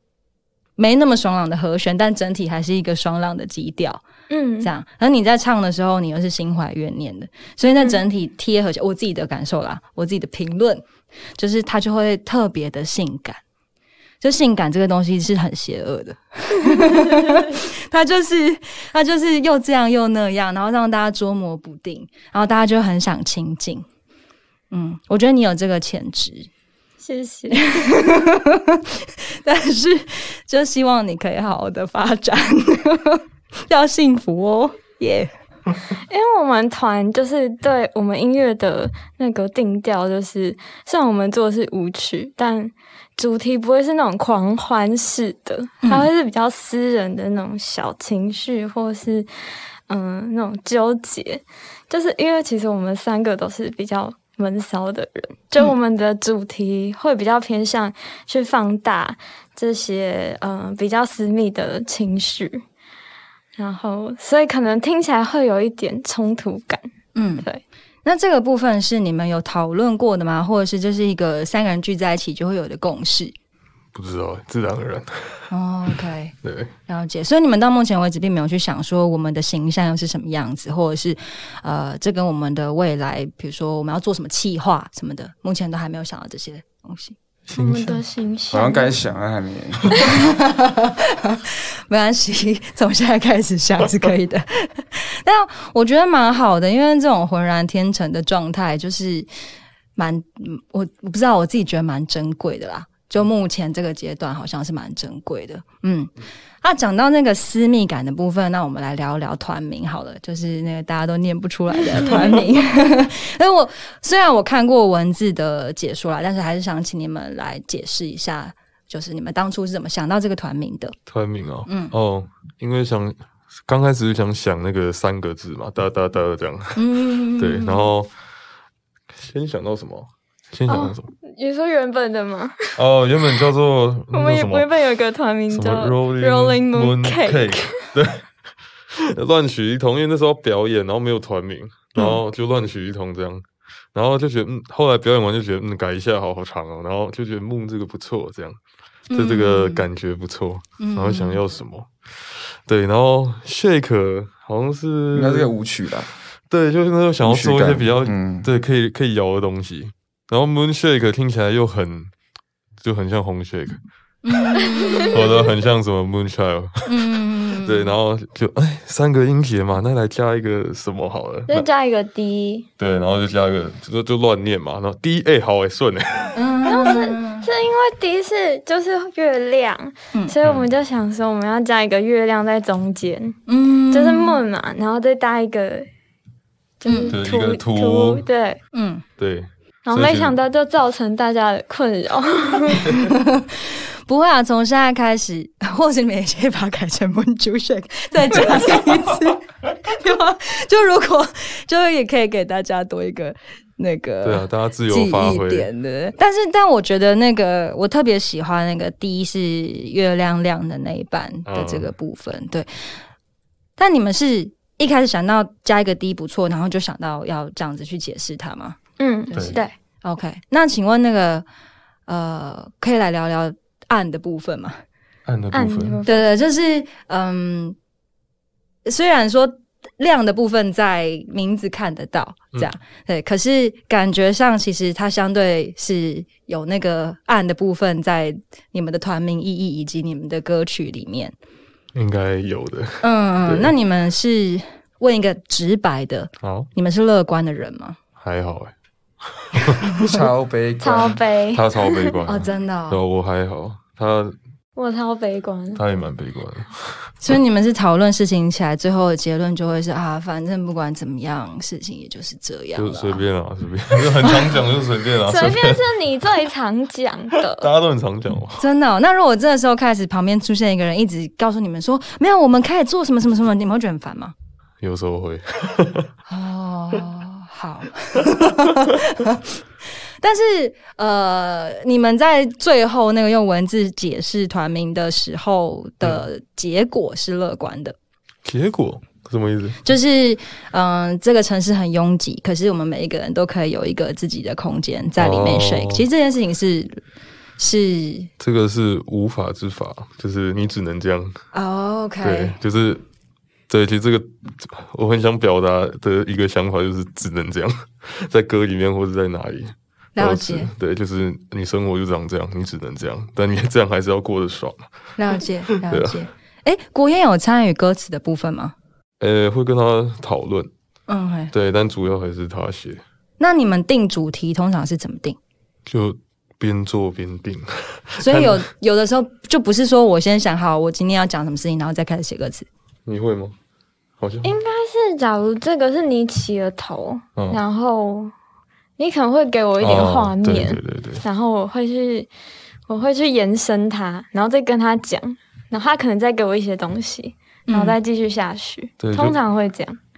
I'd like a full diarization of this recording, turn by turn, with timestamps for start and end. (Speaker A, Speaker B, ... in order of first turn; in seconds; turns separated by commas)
Speaker A: 0.8-4.0, Speaker B: 4.3-4.7, Speaker A: 4.6-10.8, Speaker A: 11.4-13.4, Speaker A: 14.2-23.9, Speaker B: 16.8-17.5, Speaker A: 24.7-26.5, Speaker B: 27.0-27.9, Speaker A: 27.5-35.3, Speaker B: 36.1-49.3, Speaker A: 45.8-46.1, Speaker B: 49.9-62.6, Speaker B: 63.6-66.8, Speaker A: 67.2-67.5, Speaker A: 68.0-73.3, Speaker C: 73.9-75.5, Speaker A: 75.5-76.3, Speaker C: 76.4-76.7, Speaker A: 76.9-87.2, Speaker C: 87.5-88.0, Speaker B: 87.5-88.9, Speaker D: 88.5-89.9, Speaker A: 90.0-99.3, Speaker A: 100.0-106.1, Speaker A: 106.6-121.0, Speaker C: 121.1-126.8, Speaker A: 121.7-121.9, Speaker A: 126.8-127.9, Speaker C: 127.4-128.1, Speaker C: 129.1-131.1, Speaker B: 130.7-132.7, Speaker C: 132.8-134.7, Speaker B: 134.1-137.7, Speaker C: 135.5-138.2, Speaker C: 139.0-148.6, Speaker A: 149.1-149.9, Speaker C: 149.1-155.5, Speaker A: 150.8-151.4, Speaker D: 155.1-156.1, Speaker C: 156.5-162.1, Speaker D: 157.2-158.5, Speaker C: 162.8-163.8, Speaker A: 164.2-165.2, Speaker B: 164.7-165.2, Speaker C: 165.1-171.7, Speaker A: 166.9-167.9, Speaker B: 171.5-172.7, Speaker C: 172.8-176.4, Speaker A: 176.4-177.5, Speaker B: 176.6-183.4, Speaker C: 180.4-180.7, Speaker A: 183.5-184.4, Speaker B: 183.9-185.9, Speaker B: 186.8-188.6, Speaker A: 186.9-187.2, Speaker C: 187.1-188.2, Speaker A: 188.7-189.0, Speaker C: 189.2-190.4, Speaker B: 189.9-192.9, Speaker A: 192.9-212.7, Speaker C: 204.2-205.7, Speaker C: 211.5-211.9, Speaker A: 213.8-218.8, Speaker B: 219.0-219.7, Speaker A: 219.3-221.5, Speaker C: 219.3-219.6, Speaker A: 222.1-224.8, Speaker C: 225.3-226.0, Speaker B: 225.5-226.2, Speaker A: 226.1-227.8, Speaker A: 228.8-241.3, Speaker C: 241.9-243.7, Speaker A: 243.0-248.0, Speaker C: 246.4-246.7, Speaker C: 248.2-248.7, Speaker C: 249.3-250.1, Speaker D: 250.0-251.2, Speaker B: 250.8-252.2, Speaker C: 251.5-254.4, Speaker A: 252.3-253.0, Speaker B: 254.8-255.8, Speaker C: 255.8-257.1, Speaker A: 257.2-263.2, Speaker C: 262.8-265.8, Speaker A: 264.2-264.5, Speaker B: 265.2-267.7, Speaker C: 267.6-268.6, Speaker A: 268.6-274.3, Speaker C: 274.8-276.1, Speaker A: 276.3-279.6, Speaker A: 280.2-288.0, Speaker C: 288.4-289.8, Speaker A: 289.8-297.0, Speaker C: 295.2-296.1, Speaker A: 297.6-298.3, Speaker C: 298.4-301.4, Speaker A: 301.5-302.6, Speaker C: 302.2-303.0, Speaker C: 303.7-314.9, Speaker A: 310.2-310.7, Speaker A: 315.2-318.7, Speaker C: 315.4-316.2, Speaker C: 319.2-320.7, Speaker A: 321.1-321.5, Speaker C: 321.5-323.0, Speaker A: 323.4-325.4, Speaker C: 325.9-328.6, Speaker A: 328.2-332.7, Speaker C: 333.1-333.6, Speaker C: 334.2-334.5, Speaker B: 334.4-338.3, Speaker C: 337.4-337.6, Speaker B: 339.0-342.3, Speaker C: 339.8-341.2, Speaker B: 342.9-350.0, Speaker A: 347.7-348.0, Speaker C: 349.0-349.4